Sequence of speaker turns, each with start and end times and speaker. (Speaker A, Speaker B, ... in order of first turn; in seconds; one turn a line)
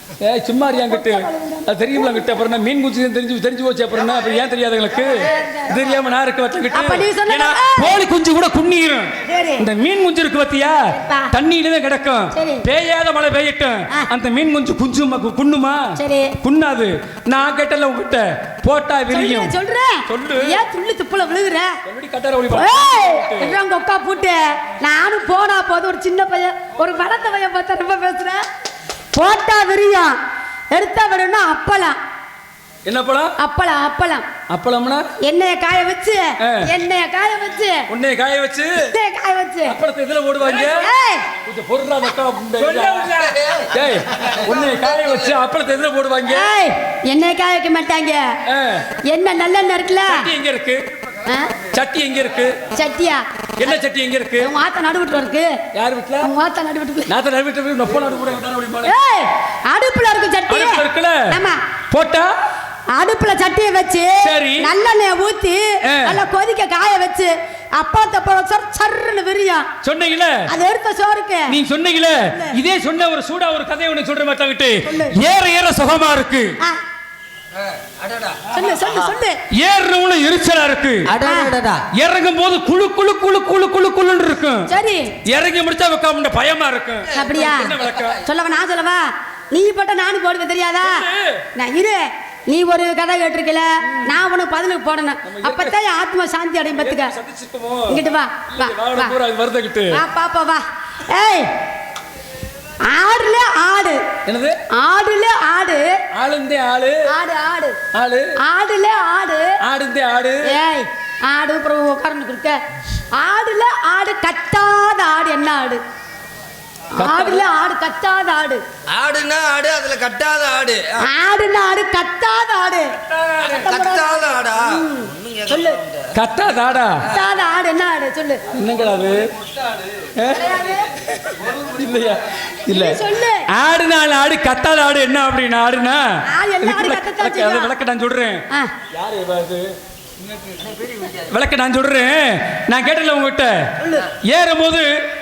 Speaker A: 0.2-19.5
Speaker B: 0.9-2.2
Speaker B: 5.2-5.7
Speaker B: 6.7-7.9
Speaker B: 9.3-9.7
Speaker B: 10.9-11.3
Speaker B: 12.3-12.7
Speaker B: 16.0-16.4
Speaker B: 19.1-21.7
Speaker A: 20.1-20.6
Speaker A: 21.9-23.5
Speaker B: 22.5-28.4
Speaker B: 29.1-30.2
Speaker B: 30.7-32.0
Speaker A: 32.9-33.3
Speaker B: 33.4-34.3
Speaker A: 34.5-35.1
Speaker B: 35.2-37.9
Speaker A: 36.4-36.7
Speaker A: 37.9-38.9
Speaker B: 38.8-39.8
Speaker A: 39.7-40.9
Speaker B: 40.5-41.3
Speaker A: 41.4-46.5
Speaker C: 42.8-43.7
Speaker B: 46.3-48.3
Speaker A: 48.5-48.9
Speaker B: 49.0-50.3
Speaker A: 50.1-50.8
Speaker B: 51.3-51.5
Speaker A: 51.7-52.6
Speaker B: 52.7-53.7
Speaker A: 53.6-54.5
Speaker B: 54.4-55.6
Speaker A: 55.8-56.3
Speaker B: 56.2-57.1
Speaker A: 57.1-58.9
Speaker B: 58.9-61.6
Speaker A: 60.5-61.3
Speaker A: 61.9-62.3
Speaker B: 62.9-69.7
Speaker A: 64.2-64.7
Speaker A: 65.8-66.2
Speaker A: 69.8-70.5
Speaker B: 70.5-71.5
Speaker A: 71.5-76.6
Speaker B: 74.8-75.2
Speaker C: 77.6-78.5
Speaker B: 78.5-79.4
Speaker A: 79.5-81.1
Speaker C: 81.1-81.8
Speaker B: 81.2-81.5
Speaker A: 81.9-84.7
Speaker B: 84.7-85.1
Speaker A: 85.3-88.2
Speaker B: 87.1-91.0
Speaker A: 90.8-91.4
Speaker B: 91.6-97.1
Speaker A: 95.2-95.7
Speaker A: 96.8-100.0
Speaker B: 97.9-99.2
Speaker B: 99.9-101.5
Speaker B: 102.8-104.0
Speaker A: 104.3-104.6
Speaker B: 104.7-106.0
Speaker A: 106.2-107.1
Speaker B: 107.1-107.8
Speaker A: 107.9-108.4
Speaker B: 108.4-109.6
Speaker A: 109.6-110.5
Speaker B: 110.5-112.6
Speaker B: 113.2-115.8
Speaker B: 117.0-118.6
Speaker A: 117.0-117.5
Speaker C: 118.9-121.1
Speaker B: 121.0-125.8
Speaker C: 123.4-126.1
Speaker A: 126.1-127.1
Speaker B: 127.1-128.4
Speaker A: 128.5-129.3
Speaker A: 130.2-130.6
Speaker B: 130.3-130.9
Speaker A: 131.2-139.8
Speaker C: 131.4-131.7
Speaker B: 132.7-133.5
Speaker B: 136.3-137.7
Speaker A: 141.3-144.9
Speaker B: 143.8-144.1